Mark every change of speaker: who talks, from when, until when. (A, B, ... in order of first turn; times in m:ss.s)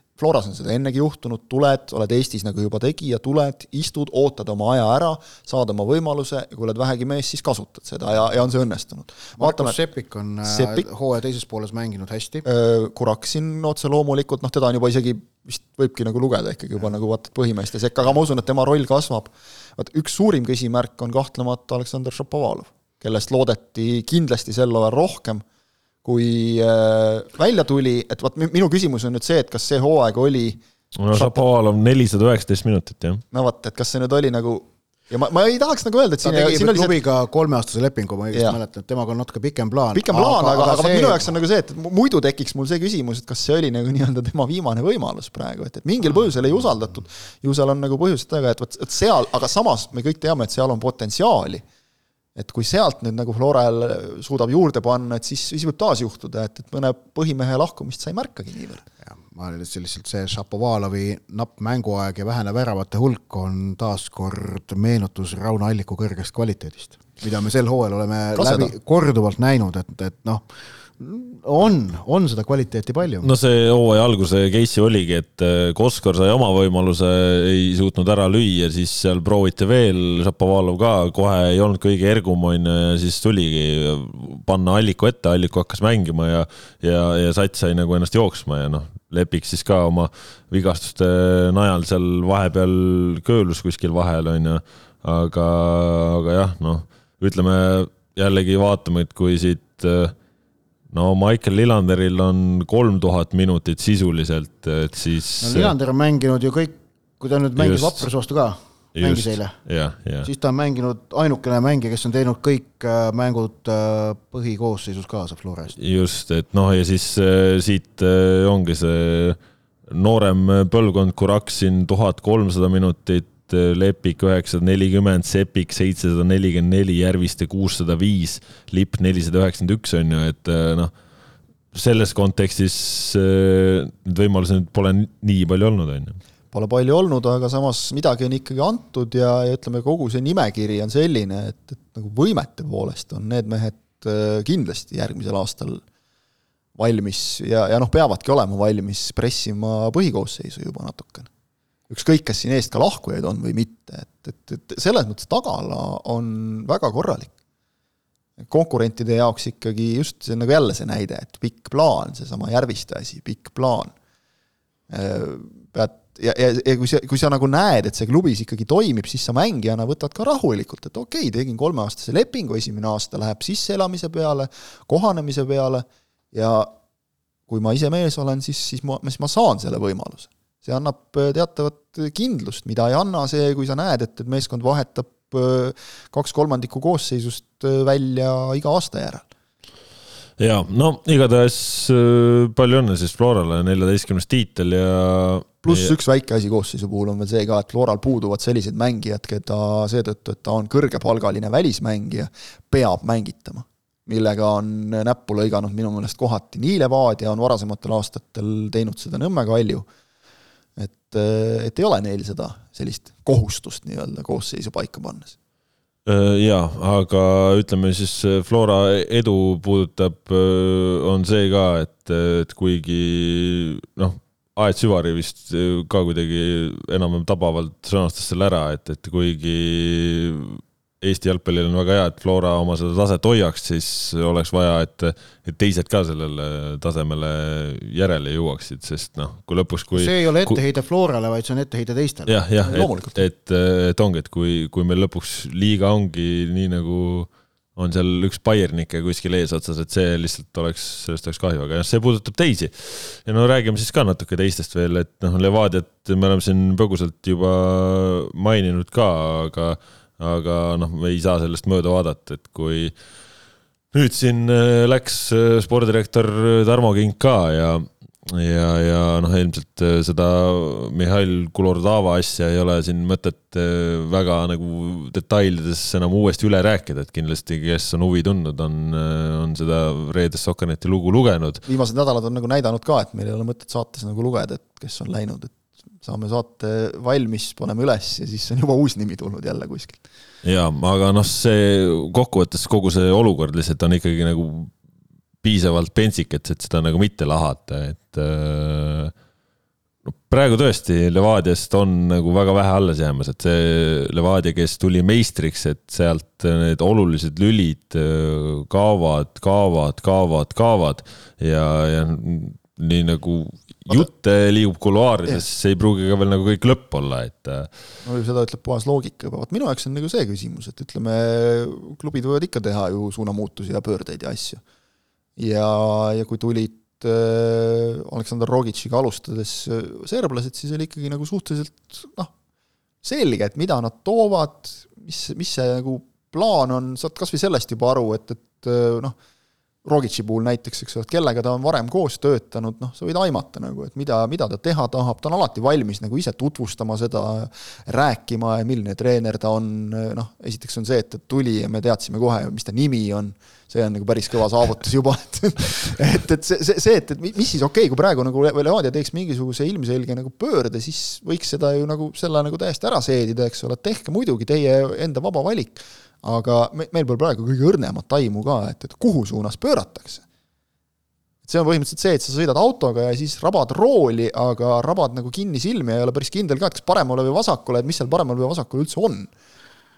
0:00.2-0:09.8 A
0:09.4-0:12.4 B
0:10.4-0:10.9 A
0:12.4-0:25.4 A
0:26.0-0:31.4 A
0:31.0-0:33.2 C
0:33.3-0:36.9 A
0:36.2-0:41.3 B
0:39.9-0:51.6 A
0:52.4-0:58.8 A
0:59.0-1:10.4 B
1:08.4-1:08.7 A
1:11.0-1:13.3 B
1:13.2-1:40.1 C
1:40.9-1:45.7 C
1:45.4-1:49.6 B
1:47.6-1:48.1 C
1:48.9-1:50.3 C
1:50.2-1:55.8 B
1:55.8-2:10.9 C
2:11.7-2:16.2 C
2:16.5-2:25.8 A
2:26.8-2:31.3 A
2:31.9-2:37.3 A
2:38.4-2:43.9 A
2:44.9-2:56.7 A
2:57.5-3:09.3 A
3:10.4-3:15.9 C
3:15.6-3:29.8 A
3:30.8-3:35.3 A
3:36.0-4:00.6 C
3:59.9-4:02.3 B
4:02.3-4:22.9 C
4:02.6-4:03.2 A
4:23.9-4:41.6 C
4:41.6-4:50.0 A
4:50.4-4:54.7 C
4:55.4-4:59.1 C
5:00.2-5:17.7 C
5:18.0-5:24.6 A
5:25.4-5:32.3 A
5:33.0-5:39.2 A
5:39.8-6:10.2 A
6:11.4-6:19.3 A